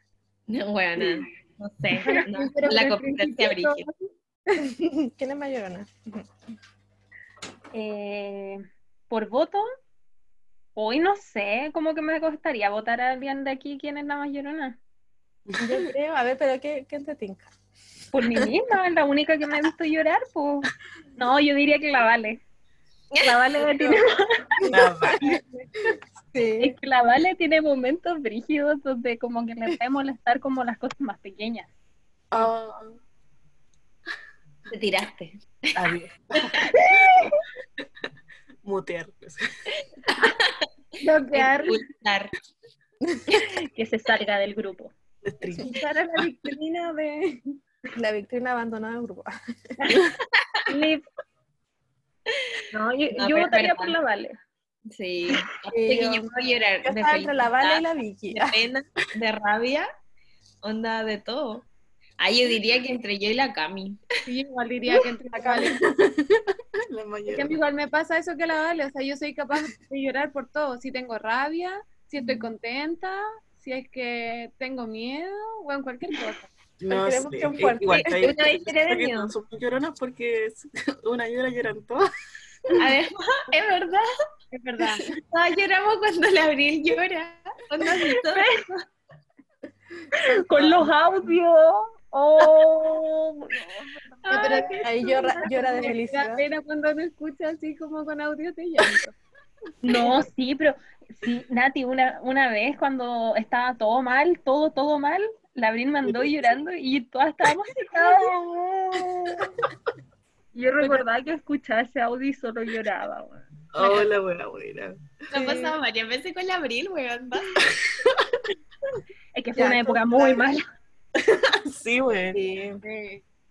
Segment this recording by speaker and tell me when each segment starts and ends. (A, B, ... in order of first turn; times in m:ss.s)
0:00.5-0:03.9 A
0:02.1-0:04.6 B
0:04.6-0:06.3 C
0:07.7-0:09.6 D
0:10.8-0:14.8 D
0:15.5-0:15.8 E
0:15.6-0:17.5 C
0:18.1-0:22.4 D
0:23.1-0:23.5 A
0:23.2-0:24.3 D
0:24.6-0:24.9 C
0:24.7-0:25.4 E
0:26.3-0:26.8 C
0:26.6-0:31.7 D
0:32.3-0:33.0 E
0:34.7-0:36.6 A
0:35.8-0:37.3 E
0:38.6-0:39.4 E
0:39.8-0:40.6 A
0:41.0-0:41.8 B
0:41.3-0:42.3 A
0:43.1-0:43.4 C
0:43.6-0:44.9 D
0:45.2-0:45.7 E
0:45.6-0:47.6 B
0:48.0-0:49.3 C
0:50.4-0:50.6 A
0:50.7-0:51.0 D
0:52.3-0:52.6 A
0:52.7-0:54.4 D
0:53.1-0:54.0 A
0:54.9-0:59.9 A
0:55.7-0:56.3 C
0:56.8-0:58.6 C
1:00.6-1:01.7 A
1:02.2-1:04.0 A
1:04.3-1:05.8 B
1:04.9-1:06.4 C
1:06.9-1:07.6 E
1:07.3-1:16.5 B
1:16.8-1:22.1 E
1:16.9-1:18.4 C
1:17.9-1:19.3 A
1:22.8-1:24.1 A
1:24.5-1:25.1 B
1:25.3-1:28.8 A
1:28.3-1:28.7 D
1:30.1-1:34.7 D
1:34.3-1:34.8 A
1:34.3-1:39.1 B
1:34.8-1:36.4 C
1:39.8-1:49.6 D
1:50.5-1:54.0 D
1:53.7-1:55.2 E
1:55.3-1:57.6 A
1:55.3-1:55.7 B
1:57.7-1:58.4 E
1:59.4-2:00.6 D
1:59.6-2:00.5 C
2:01.3-2:02.8 E
2:02.8-2:03.2 B